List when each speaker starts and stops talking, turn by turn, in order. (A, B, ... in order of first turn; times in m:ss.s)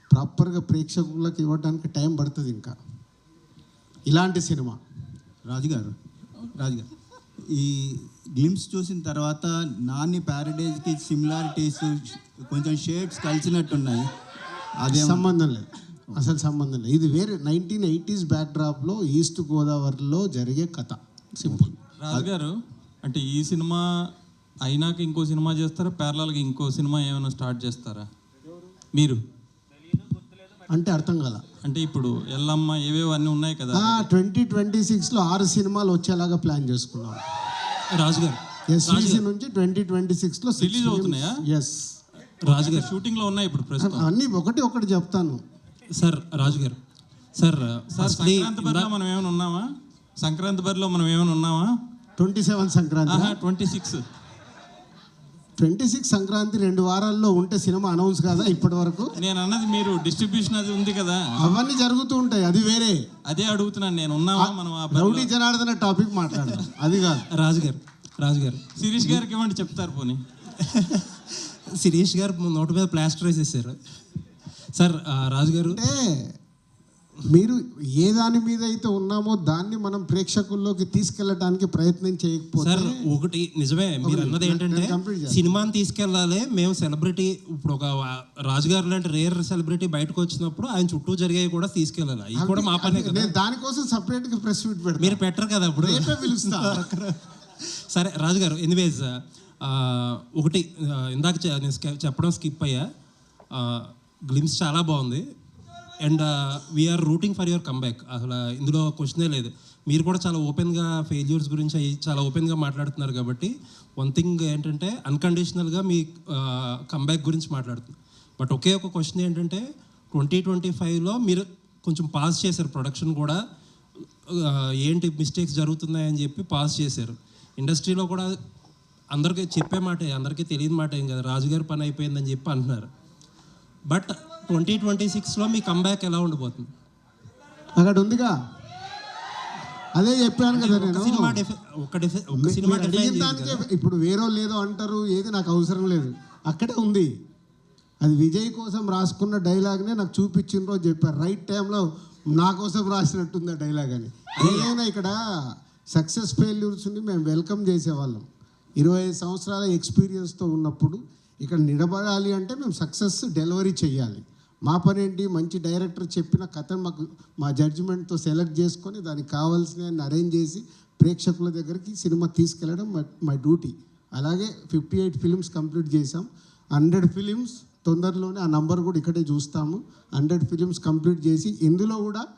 0:00.1-0:02.8 A
0:04.1-0:04.8 A
0:05.4-0:06.0 B
0:06.5-0:06.9 B
0:07.5-0:14.1 B
0:14.8-0:15.2 B
0:14.9-0:22.3 A
0:22.0-0:22.5 C
0:23.0-0:23.8 C
0:24.7-0:28.0 C
0:30.7-0:31.4 A
0:31.6-0:34.1 C
0:33.7-0:37.2 A
0:38.0-0:39.2 D
0:38.7-0:41.9 A
0:40.6-0:41.4 C
0:42.4-0:44.1 C
0:42.5-0:42.9 D
0:43.8-0:45.4 A
0:46.0-0:46.8 D
0:47.4-0:48.9 D
0:47.9-0:49.6 C
0:50.2-0:51.7 C
0:52.2-0:53.4 A
0:53.1-0:54.0 C
0:55.6-0:59.1 A
0:59.2-1:01.4 C
1:01.4-1:03.0 A
1:03.3-1:05.3 C
1:04.4-1:07.2 A
1:07.4-1:08.6 D
1:08.8-1:10.2 C
1:10.6-1:13.8 D
1:14.8-1:15.8 D
1:15.6-1:16.3 A
1:17.3-1:22.9 A
1:22.6-1:33.4 D
1:24.0-1:25.7 A
1:32.4-1:35.2 A
1:35.0-1:42.8 D
1:35.8-1:36.9 A
1:43.6-1:45.2 D
1:46.0-2:03.4 D
2:04.4-2:08.3 D
2:09.1-2:12.9 D
2:13.9-2:16.7 D
2:17.8-2:18.4 A
2:20.0-2:21.4 A
2:20.5-2:23.6 D
2:22.4-2:27.1 A
2:28.0-2:35.2 A
2:34.4-2:34.7 D
2:35.9-2:38.3 A
2:38.8-3:02.2 A